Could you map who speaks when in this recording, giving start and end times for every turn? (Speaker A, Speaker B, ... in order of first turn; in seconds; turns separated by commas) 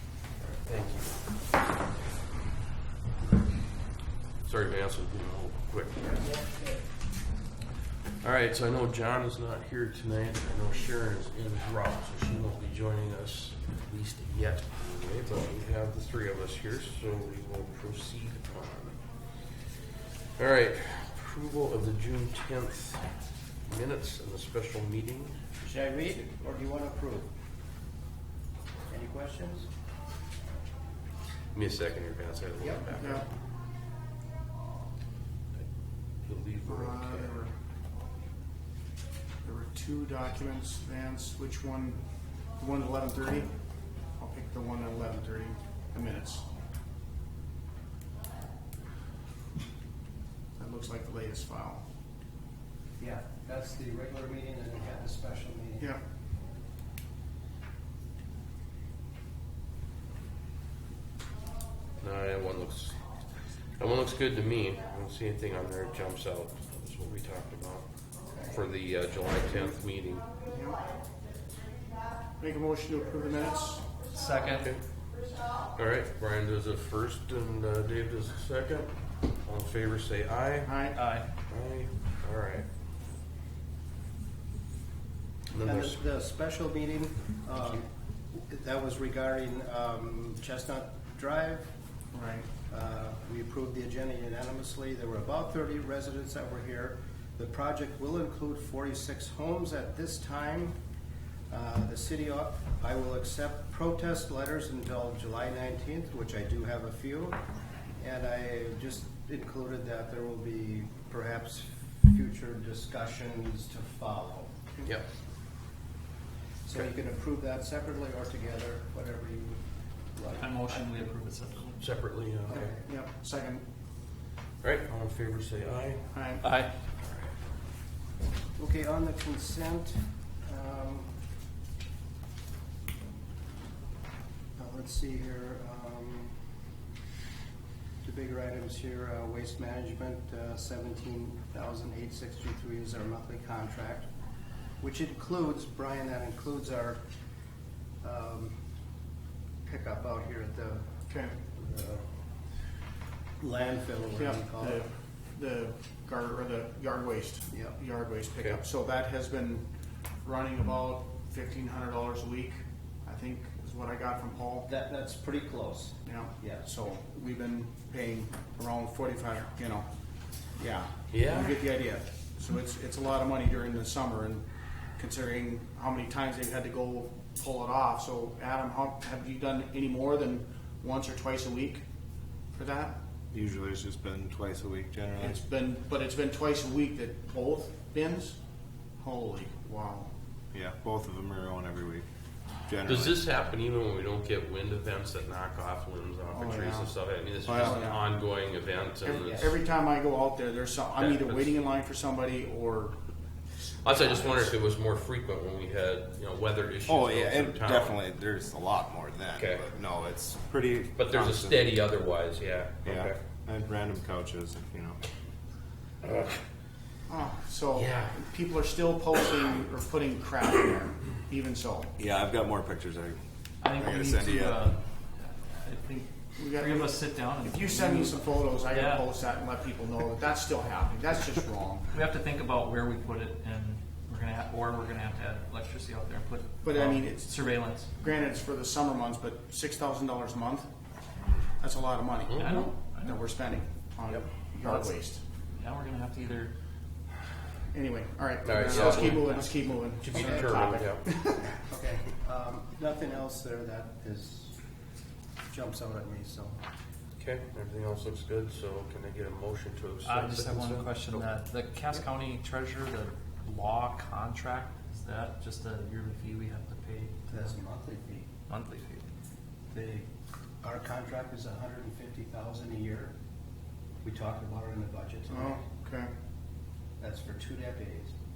Speaker A: 0.7-1.2, Speaker A: 4.5-6.3, Speaker B: 6.2-6.6, Speaker A: 8.2-19.0, Speaker A: 20.4-23.1, Speaker A: 23.7-25.4, Speaker B: 25.6-27.3, Speaker B: 28.9-29.7, Speaker A: 31.5-33.3, Speaker B: 32.6-32.9, Speaker C: 33.0-33.3, Speaker A: 36.2-37.4, Speaker C: 36.7-37.5, Speaker C: 39.4-42.0, Speaker C: 42.6-43.5, Speaker C: 44.2-46.5, Speaker C: 50.6-51.8, Speaker B: 53.0-55.9, Speaker A: 62.0-63.0, Speaker A: 63.8-67.9, Speaker A: 68.4-70.3, Speaker C: 70.4-70.9, Speaker C: 72.4-74.0, Speaker D: 74.1-74.7, Speaker A: 74.6-74.8, Speaker A: 75.7-78.9, Speaker A: 79.4-80.8, Speaker C: 80.6-81.0, Speaker D: 80.9-81.3, Speaker A: 81.5-82.7, Speaker A: 85.5-86.0, Speaker B: 85.6-91.7, Speaker C: 92.1-92.5, Speaker B: 92.7-100.8, Speaker B: 101.5-107.4, Speaker B: 108.0-114.8, Speaker B: 116.7-119.6, Speaker B: 120.2-121.1, Speaker D: 120.3-121.8, Speaker A: 121.8-122.7, Speaker B: 122.5-122.8, Speaker C: 122.8-123.6, Speaker A: 124.6-126.1, Speaker C: 126.1-126.6, Speaker D: 126.4-126.7, Speaker B: 128.6-131.1, Speaker B: 134.6-136.4, Speaker B: 138.0-144.1, Speaker B: 144.8-147.0, Speaker B: 148.0-148.6, Speaker B: 149.7-150.9, Speaker C: 151.1-151.4, Speaker B: 151.4-152.1, Speaker B: 153.4-154.8, Speaker C: 154.1-159.7, Speaker B: 157.5-157.8, Speaker C: 160.2-164.7, Speaker B: 164.7-166.7, Speaker C: 166.1-169.9, Speaker C: 170.6-174.4, Speaker A: 171.1-171.7, Speaker C: 175.0-181.8, Speaker C: 182.5-183.0, Speaker E: 183.3-185.4, Speaker C: 185.2-188.4, Speaker C: 189.0-190.1, Speaker E: 190.5-192.1, Speaker E: 192.7-193.2, Speaker A: 192.9-199.6, Speaker C: 196.3-196.9, Speaker E: 197.5-197.8, Speaker C: 197.5-198.1, Speaker C: 199.0-203.0, Speaker A: 201.0-201.5, Speaker A: 203.8-208.0, Speaker C: 204.0-204.4, Speaker E: 206.9-211.7, Speaker A: 209.3-209.6, Speaker A: 211.0-213.2, Speaker E: 212.8-215.0, Speaker A: 216.0-216.4, Speaker C: 217.1-221.9, Speaker A: 217.8-218.2, Speaker E: 222.0-223.2, Speaker D: 223.6-229.1, Speaker E: 223.8-224.6, Speaker C: 226.4-231.9, Speaker D: 231.9-237.9, Speaker C: 236.6-237.4, Speaker C: 238.0-240.7, Speaker C: 241.6-245.2, Speaker A: 242.3-242.6, Speaker D: 242.4-243.3, Speaker D: 244.6-244.9, Speaker D: 245.6-246.5, Speaker C: 247.7-251.6, Speaker A: 248.4-249.3, Speaker D: 248.7-250.0, Speaker A: 250.0-251.0, Speaker B: 251.7-254.6, Speaker B: 255.5-256.6, Speaker A: 257.2-261.2, Speaker D: 260.0-267.5, Speaker B: 267.3-268.3, Speaker D: 268.5-269.1, Speaker B: 269.7-270.1, Speaker B: 270.6-273.1, Speaker B: 274.0-275.7, Speaker C: 275.3-276.1, Speaker B: 277.0-278.1